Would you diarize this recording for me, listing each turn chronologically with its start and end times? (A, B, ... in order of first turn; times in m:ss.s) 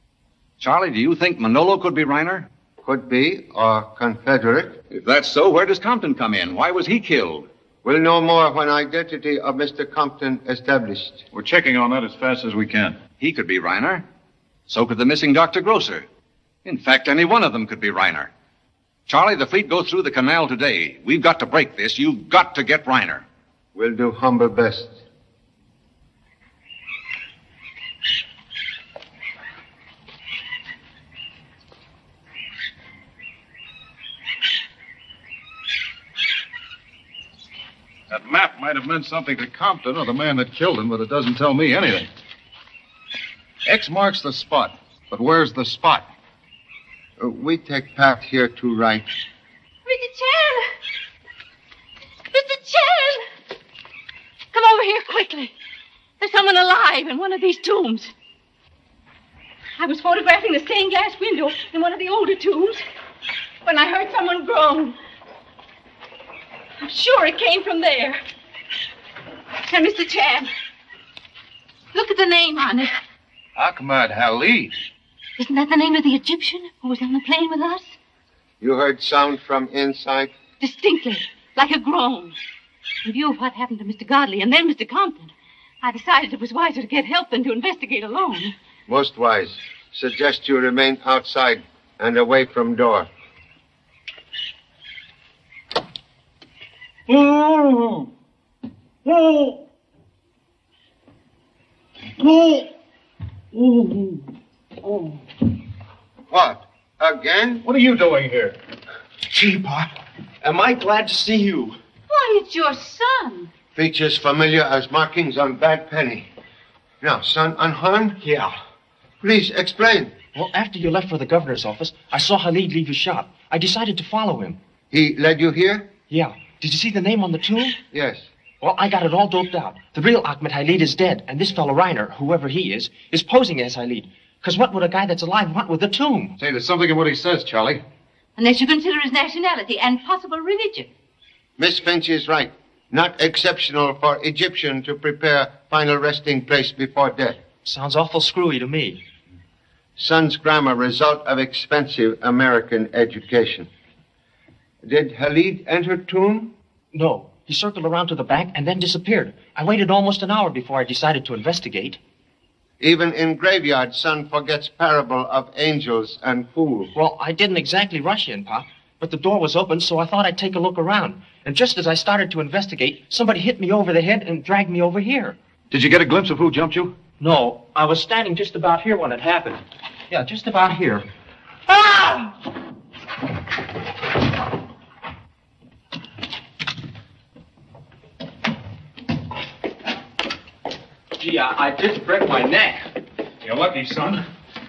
0:00.6-0:02.5 A
0:02.8-0:04.8 B
0:04.9-0:07.5 A
0:07.8-0:11.2 B
0:11.3-0:13.0 C
0:13.2-0:14.0 A
0:14.7-0:16.0 A
0:16.6-0:18.3 A
0:19.1-0:23.2 A
0:23.7-0:25.0 B
0:38.1-0:42.1 C
0:43.6-0:46.1 C
0:47.2-0:49.1 B
0:49.8-0:50.7 D
0:52.3-0:53.2 D
0:54.5-0:55.5 D
0:56.2-0:58.1 D
0:59.8-1:02.8 D
1:03.6-1:05.0 D
1:06.8-1:08.2 D
1:09.6-1:10.5 D
1:11.9-1:12.9 D
1:13.6-1:14.7 C
1:15.4-1:17.9 D
1:18.6-1:20.3 B
1:20.6-1:22.4 D
1:23.0-1:28.5 D
1:28.9-1:33.1 B
1:37.1-1:38.1 C
1:39.0-1:39.6 C
1:42.2-1:42.6 C
1:43.5-1:44.2 E
1:46.3-1:47.6 B
1:47.6-1:48.5 C
1:49.3-1:51.8 E
1:52.1-1:53.5 D
1:53.7-1:56.3 B
1:57.0-1:58.2 B
1:58.2-1:58.5 E
1:59.2-2:00.1 B
2:00.3-2:04.6 E
2:04.9-2:05.9 B
2:06.1-2:07.8 E
2:07.9-2:08.3 B
2:08.6-2:16.3 E
2:16.4-2:17.8 C
2:18.4-2:20.9 D
2:21.6-2:27.4 B
2:27.6-2:29.0 E
2:30.0-2:33.7 B
2:34.8-2:36.5 B
2:36.9-2:42.0 E
2:42.8-2:46.9 B
2:46.9-2:55.4 E
2:55.7-2:56.9 A
2:57.2-3:01.0 E
3:01.7-3:02.3 E
3:11.2-3:12.8 E
3:13.4-3:14.2 C